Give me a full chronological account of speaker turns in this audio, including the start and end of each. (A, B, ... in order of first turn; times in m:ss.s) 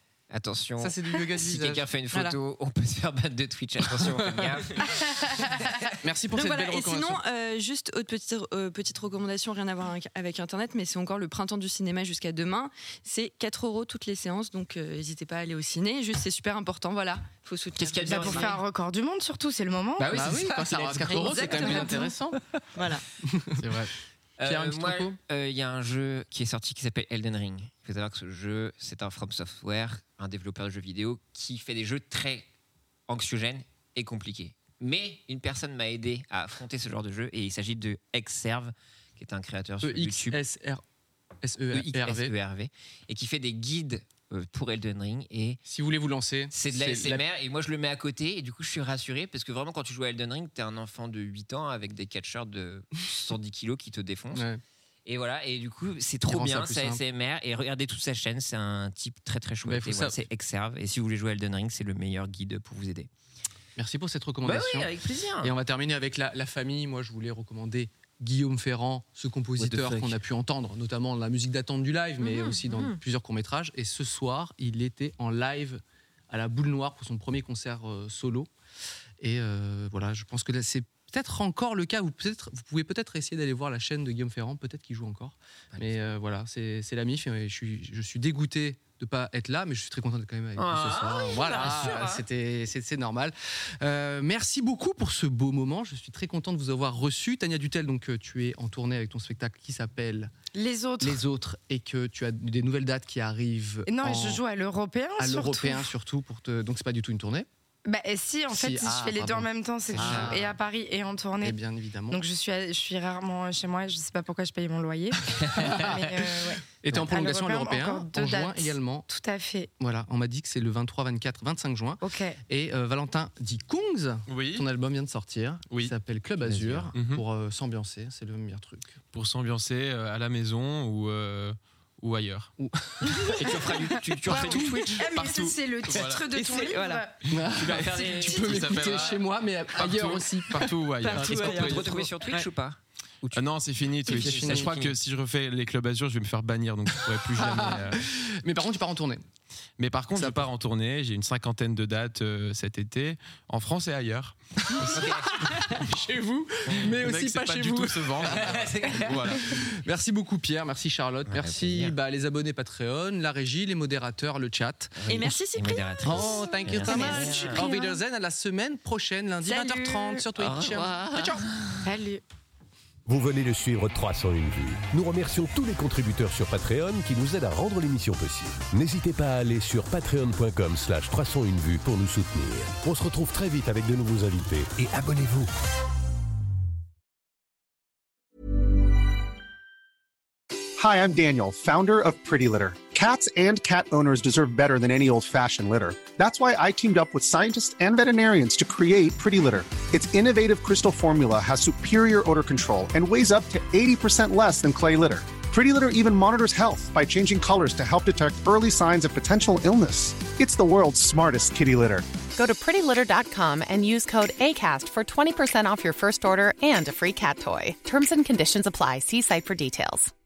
0:00.3-0:05.0 A
0:00.8-0:01.8 B
0:04.0-0:04.6 B
0:06.0-0:07.2 B
0:06.3-0:18.6 C
0:17.8-0:18.6 A
0:18.1-0:20.2 D
0:20.0-0:22.0 A
0:20.1-0:22.4 B
0:21.3-0:22.1 C
0:22.8-0:23.0 C
0:23.2-0:23.8 B
0:23.6-0:23.9 E
0:24.4-0:32.5 A
0:24.4-0:25.2 B
0:33.1-0:40.4 A
0:39.8-0:40.8 B
0:41.4-0:42.3 B
0:41.7-0:45.6 A
0:45.7-0:47.2 B
0:46.5-0:54.5 A
0:54.3-0:54.6 B
0:55.1-1:03.1 A
0:56.3-0:57.0 B
0:59.6-1:00.2 B
1:03.8-1:18.5 B
1:04.4-1:05.5 A
1:09.6-1:10.2 A
1:12.2-1:13.0 C
1:19.2-1:40.3 B
1:25.7-1:26.1 A
1:30.6-1:32.2 A
1:40.5-1:41.2 D
1:41.0-1:44.4 B
1:43.9-1:45.9 D
1:45.2-1:47.5 B
1:47.8-1:51.6 D
1:48.5-1:50.6 B
1:49.9-1:50.4 A
1:51.4-1:52.2 B
1:52.1-1:59.7 D
1:55.4-1:56.0 A
1:55.5-1:56.1 B
1:56.8-1:59.1 B
1:59.8-2:09.0 B
2:02.0-2:02.4 D
2:04.3-2:04.6 E
2:06.4-2:06.9 A
2:07.0-2:07.2 E
2:09.1-2:12.5 E
2:12.6-2:13.6 B
2:13.2-2:15.1 A
2:13.5-2:17.2 D
2:14.4-2:14.9 C
2:15.2-2:16.4 E
2:16.0-2:17.0 C
2:17.3-2:19.2 E
2:17.3-2:22.1 B
2:17.6-2:19.2 A
2:19.8-2:21.8 E
2:21.0-2:22.5 C
2:21.2-2:22.8 A
2:23.3-2:28.0 E
2:24.1-2:25.0 A
2:24.2-2:24.7 B
2:27.3-2:29.2 B
2:29.8-2:35.8 E
2:30.2-2:30.5 B
2:34.7-2:45.0 B
2:34.9-2:35.3 A
2:36.8-2:39.6 E
2:38.2-2:39.4 A
2:41.3-2:42.0 A
2:45.0-2:47.7 A
2:45.1-2:48.0 C
2:46.0-2:51.5 B
2:49.4-2:50.3 C
2:50.4-2:51.8 A
2:51.8-2:52.2 D
2:53.1-3:05.5 F
3:10.8-3:32.1 G
3:32.4-3:40.1 H